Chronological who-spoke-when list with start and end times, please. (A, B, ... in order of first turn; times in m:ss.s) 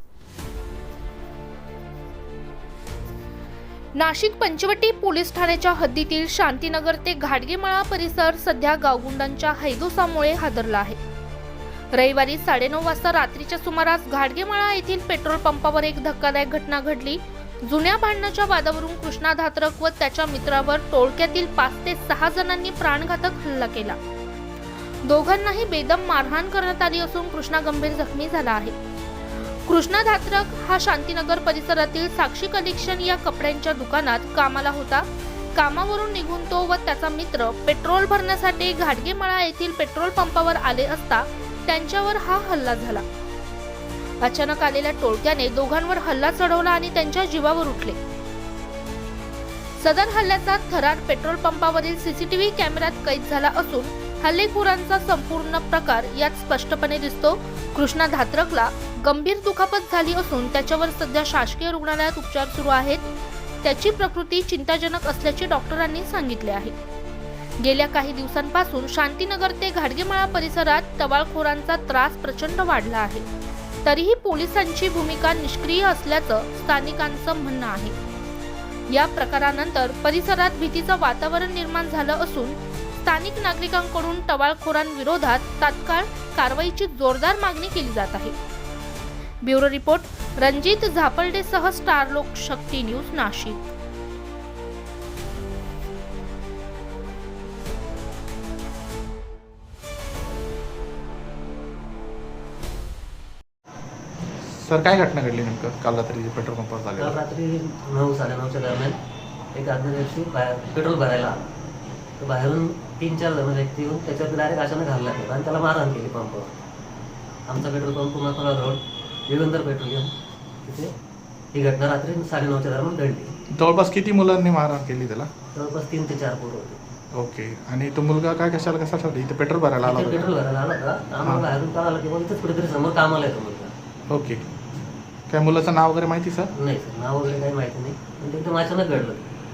0:04.0-0:11.0 A
0:11.9-0:24.0 A
0:25.0-0:28.8 A
0:29.7-0:43.0 A
0:44.2-0:48.0 A
0:49.8-1:03.1 A
1:03.6-1:06.8 A
1:07.6-1:13.3 A
1:13.8-1:18.0 A
1:18.9-1:28.4 A
1:29.4-1:33.6 A
1:44.4-1:47.2 B
1:47.0-1:49.0 C
1:49.5-1:51.4 C
1:52.2-1:56.6 C
1:57.5-2:00.1 C
2:00.6-2:00.9 C
2:01.5-2:03.3 C
2:03.6-2:05.3 B
2:05.6-2:06.8 C
2:07.2-2:10.3 B
2:09.8-2:13.7 C
2:14.1-2:14.4 B
2:15.3-2:16.5 B
2:16.6-2:19.3 C